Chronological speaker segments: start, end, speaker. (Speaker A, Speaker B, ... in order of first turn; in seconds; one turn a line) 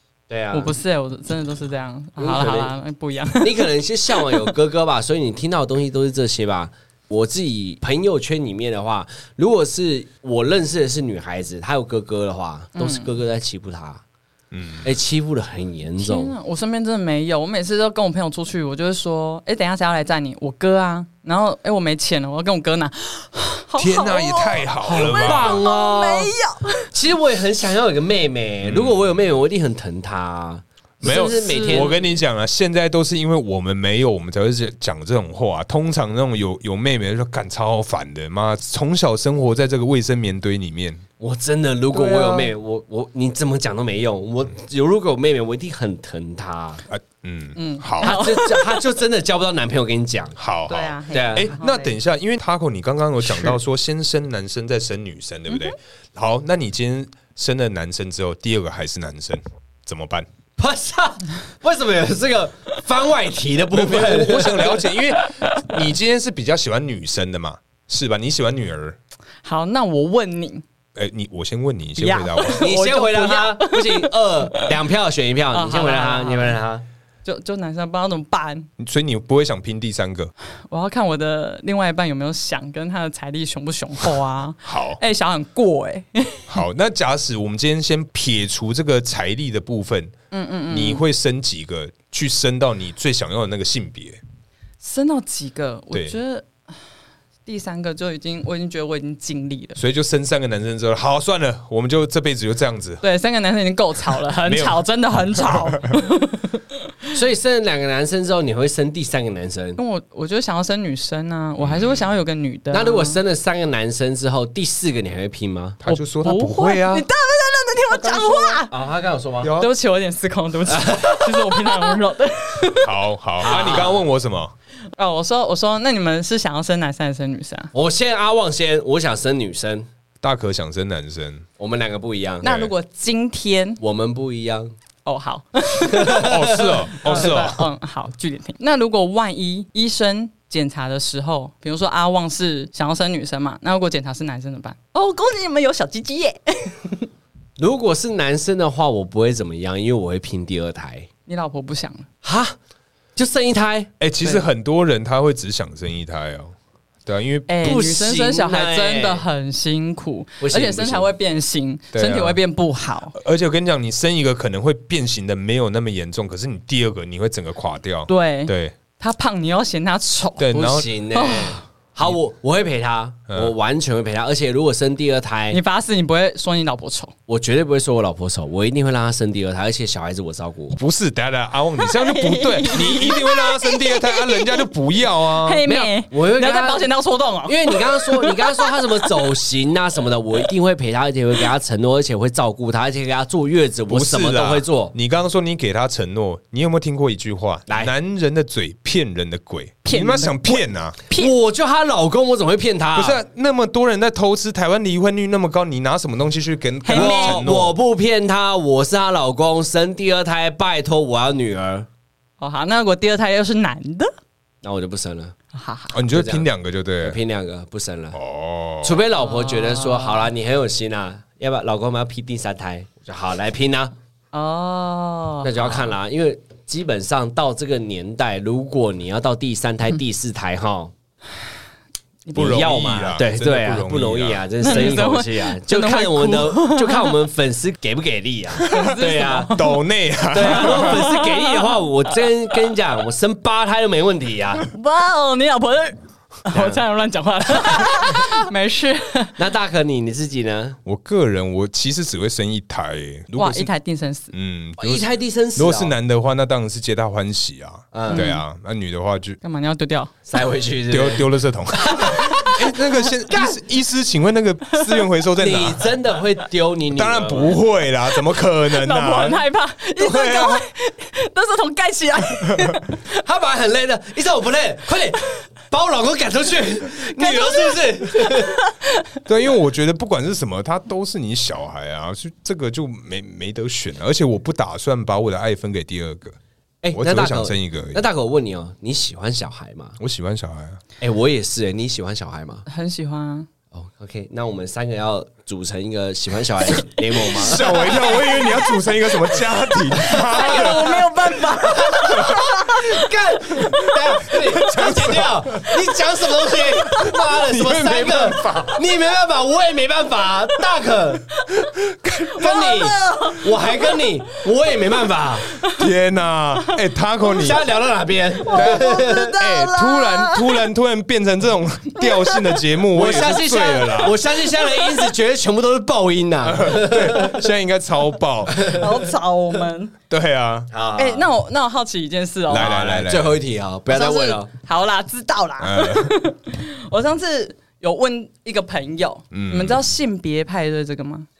Speaker A: 0.3-0.8
Speaker B: 0.5-4.5
Speaker A: 2.2-2.7
Speaker A: 3.4-14.0
Speaker B: 12.8-13.1
Speaker C: 14.5-14.8
Speaker A: 14.8-16.3
Speaker B: 16.0-26.9
Speaker C: 23.8-25.6
Speaker A: 24.8-26.3
Speaker A: 26.9-31.9
Speaker C: 28.6-29.0
Speaker C: 31.0-41.0
Speaker B: 31.0-32.1
Speaker A: 41.2-46.8
Speaker C: 41.9-42.5
Speaker C: 46.9-48.1
Speaker B: 47.5-48.8
Speaker A: 48.0-50.4
Speaker C: 50.4-60.3
Speaker B: 50.7-52.0
Speaker A: 51.1-51.5
Speaker B: 53.2-53.6
Speaker B: 55.5-55.7
Speaker A: 60.6-64.8
Speaker C: 63.7-69.0
Speaker B: 69.4-70.6
Speaker C: 71.0-72.7
Speaker B: 72.0-74.7
Speaker A: 72.5-76.8
Speaker B: 75.5-76.6
Speaker B: 77.2-78.7
Speaker C: 78.8-80.3
Speaker B: 80.7-86.6
Speaker C: 84.7-85.0
Speaker C: 86.5-90.1
Speaker B: 90.3-91.0
Speaker C: 90.7-94.2
Speaker B: 94.8-96.7
Speaker C: 95.9-96.2
Speaker B: 97.5-99.8
Speaker C: 99.8-103.0
Speaker B: 103.0-106.8
Speaker C: 104.4-104.8
Speaker C: 105.3-106.0
Speaker A: 107.1-109.8
Speaker B: 109.8-113.2
Speaker C: 111.6-112.0
Speaker A: 112.7-115.8
Speaker C: 115.8-117.1
Speaker B: 115.8-118.7
Speaker C: 117.9-118.6
Speaker A: 118.7-119.5
Speaker C: 119.4-119.7
Speaker B: 119.6-123.0
Speaker A: 120.7-121.9
Speaker C: 122.8-124.5
Speaker A: 123.4-124.0
Speaker B: 123.5-123.8
Speaker B: 125.0-127.7
Speaker A: 127.7-129.9
Speaker C: 130.2-131.4
Speaker A: 131.6-132.5
Speaker B: 132.4-133.8
Speaker C: 132.4-132.7
Speaker A: 133.8-134.7
Speaker B: 135.1-147.1
Speaker A: 135.8-137.5
Speaker C: 136.1-137.6
Speaker A: 147.6-151.1
Speaker B: 151.3-152.1
Speaker A: 152.2-152.6
Speaker A: 153.2-153.9
Speaker C: 154.0-156.5
Speaker C: 157.1-157.5
Speaker B: 157.5-163.1
Speaker A: 157.6-159.2
Speaker A: 160.4-161.1
Speaker C: 161.9-162.4
Speaker C: 163.1-168.7
Speaker B: 168.1-171.6
Speaker C: 170.4-170.9
Speaker A: 170.5-175.6
Speaker C: 173.3-173.5
Speaker B: 175.5-177.1
Speaker A: 177.3-180.8
Speaker C: 180.7-185.6
Speaker B: 181.8-184.7
Speaker B: 185.2-189.3
Speaker A: 185.6-186.9
Speaker A: 187.4-194.9
Speaker C: 193.9-201.0
Speaker B: 199.8-201.3
Speaker A: 201.1-203.2
Speaker C: 202.9-207.8
Speaker B: 206.8-207.4
Speaker A: 206.9-211.9
Speaker B: 212.4-214.1
Speaker A: 214.6-215.3
Speaker B: 215.5-215.9
Speaker C: 215.9-217.2
Speaker A: 216.1-216.4
Speaker A: 217.0-218.2
Speaker C: 218.1-219.0
Speaker A: 218.8-223.9
Speaker B: 219.1-220.3
Speaker B: 224.3-225.9
Speaker A: 225.4-230.9
Speaker B: 232.2-232.6
Speaker A: 232.3-239.6
Speaker C: 232.3-234.7
Speaker B: 234.6-237.2
Speaker C: 238.6-241.0
Speaker B: 238.7-239.8
Speaker A: 240.3-244.7
Speaker B: 240.3-241.8
Speaker B: 244.6-249.3
Speaker A: 246.5-246.8
Speaker A: 247.6-248.3
Speaker A: 249.4-250.8
Speaker C: 250.8-253.7
Speaker B: 253.3-254.3
Speaker C: 254.3-259.4
Speaker A: 254.8-255.9
Speaker A: 257.9-258.3
Speaker B: 258.1-258.4
Speaker B: 259.4-260.1
Speaker A: 260.3-262.3
Speaker C: 260.9-265.9
Speaker B: 262.0-262.7
Speaker A: 265.4-267.6
Speaker C: 266.9-269.4
Speaker B: 268.3-272.9
Speaker C: 270.0-270.6
Speaker C: 272.4-272.7
Speaker A: 273.0-278.6
Speaker B: 277.0-279.1
Speaker C: 279.2-286.4
Speaker A: 286.8-290.0
Speaker C: 286.9-288.0
Speaker C: 290.0-290.8
Speaker A: 291.0-292.6
Speaker B: 292.7-293.5
Speaker A: 293.7-298.3
Speaker C: 297.3-301.0
Speaker B: 297.9-298.8
Speaker B: 300.0-305.1
Speaker A: 300.1-311.3
Speaker C: 302.1-302.6
Speaker C: 304.7-305.6
Speaker B: 306.3-307.1
Speaker C: 307.0-308.8
Speaker C: 311.5-312.6
Speaker B: 312.3-314.2
Speaker A: 312.4-315.5
Speaker B: 315.5-315.9
Speaker C: 315.6-317.6
Speaker A: 317.3-319.3
Speaker B: 318.4-320.7
Speaker C: 318.5-324.2
Speaker B: 322.0-322.6
Speaker A: 322.9-327.4
Speaker B: 323.8-325.1
Speaker C: 326.4-328.7
Speaker B: 328.6-329.9
Speaker C: 330.1-330.7
Speaker A: 330.7-331.3
Speaker B: 331.0-332.8
Speaker C: 332.5-333.4
Speaker A: 332.5-334.5
Speaker B: 333.9-341.3
Speaker C: 335.6-336.1
Speaker C: 339.3-339.9